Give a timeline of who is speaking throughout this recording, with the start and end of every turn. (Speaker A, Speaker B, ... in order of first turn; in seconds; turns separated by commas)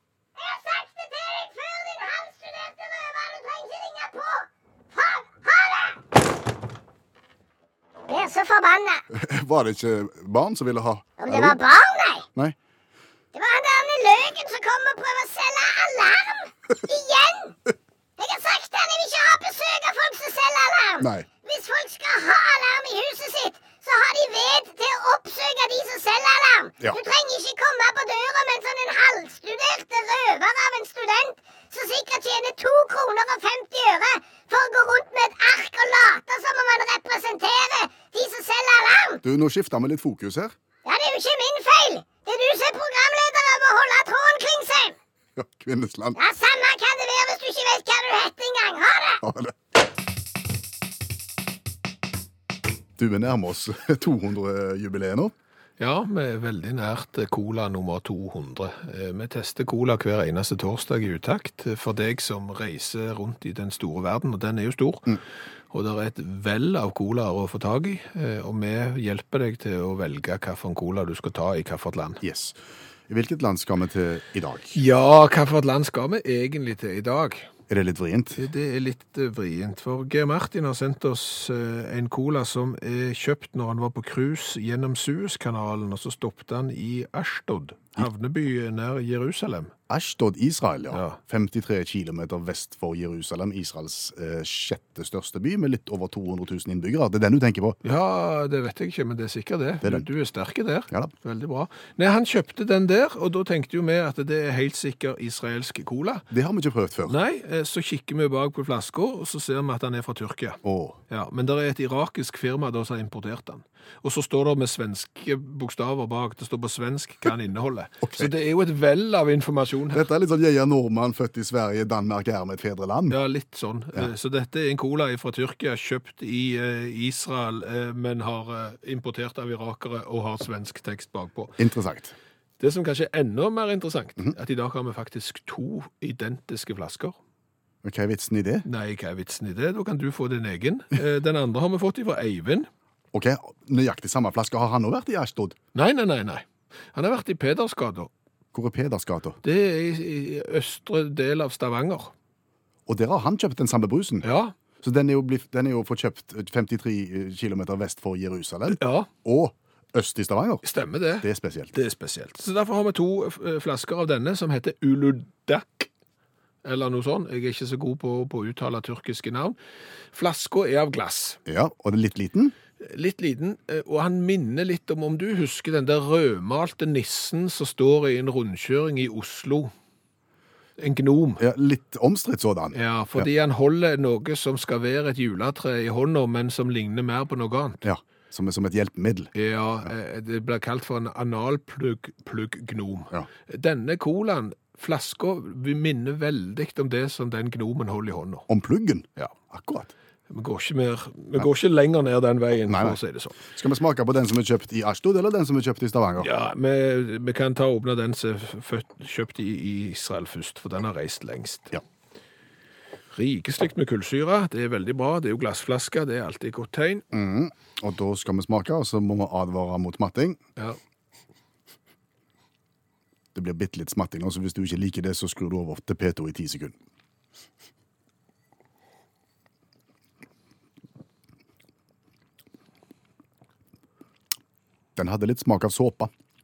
Speaker A: 0.4-6.0, Speaker A: 8.1-9.0, Speaker B: 9.1-11.6, Speaker A: 11.2-12.3, Speaker A: 13.3-17.6, Speaker A: 18.2-39.2, Speaker B: 21.0-21.3, Speaker B: 39.2-40.5, Speaker A: 40.9-45.0, Speaker B: 45.4-46.2, Speaker A: 46.2-49.2, Speaker B: 49.2-49.5, Speaker B: 53.0-55.3, Speaker C: 55.8-65.2, Speaker C: 65.7-72.2, Speaker B: 72.2-74.8, Speaker C: 74.7-77.5, Speaker B: 77.7-78.4, Speaker C: 78.3-89.7, Speaker B: 89.9-97.8, Speaker C: 90.9-91.2, Speaker C: 97.8-106.3, Speaker B: 106.3-107.2, Speaker C: 107.1-120.0, Speaker B: 110.6-111.0, Speaker B: 118.0-118.3, Speaker B: 119.9-123.2, Speaker C: 123.1-131.6, Speaker B: 131.6-132.1, Speaker C: 132.6-137.2, Speaker B: 137.8-138.7, Speaker C: 138.7-142.7, Speaker B: 143.1-145.6, Speaker C: 145.8-148.1, Speaker B: 148.5-149.4, Speaker C: 149.4-152.1, Speaker B: 152.9-154.3, Speaker C: 154.2-154.6, Speaker B: 154.8-160.6, Speaker C: 158.7-159.1, Speaker C: 160.6-165.9, Speaker B: 161.2-161.7, Speaker C: 166.6-169.6, Speaker C: 170.1-171.4, Speaker B: 171.5-172.6, Speaker C: 172.8-179.7, Speaker C: 180.8-181.4, Speaker B: 181.4-183.3, Speaker C: 182.7-187.8, Speaker B: 187.8-189.3, Speaker C: 189.3-198.5, Speaker B: 198.5-199.9, Speaker C: 200.3-203.4, Speaker B: 202.7-206.3, Speaker C: 206.2-211.8, Speaker C: 213.1-217.1, Speaker B: 217.1-220.4, Speaker B: 223.3-226.8, Speaker B: 235.0-236.1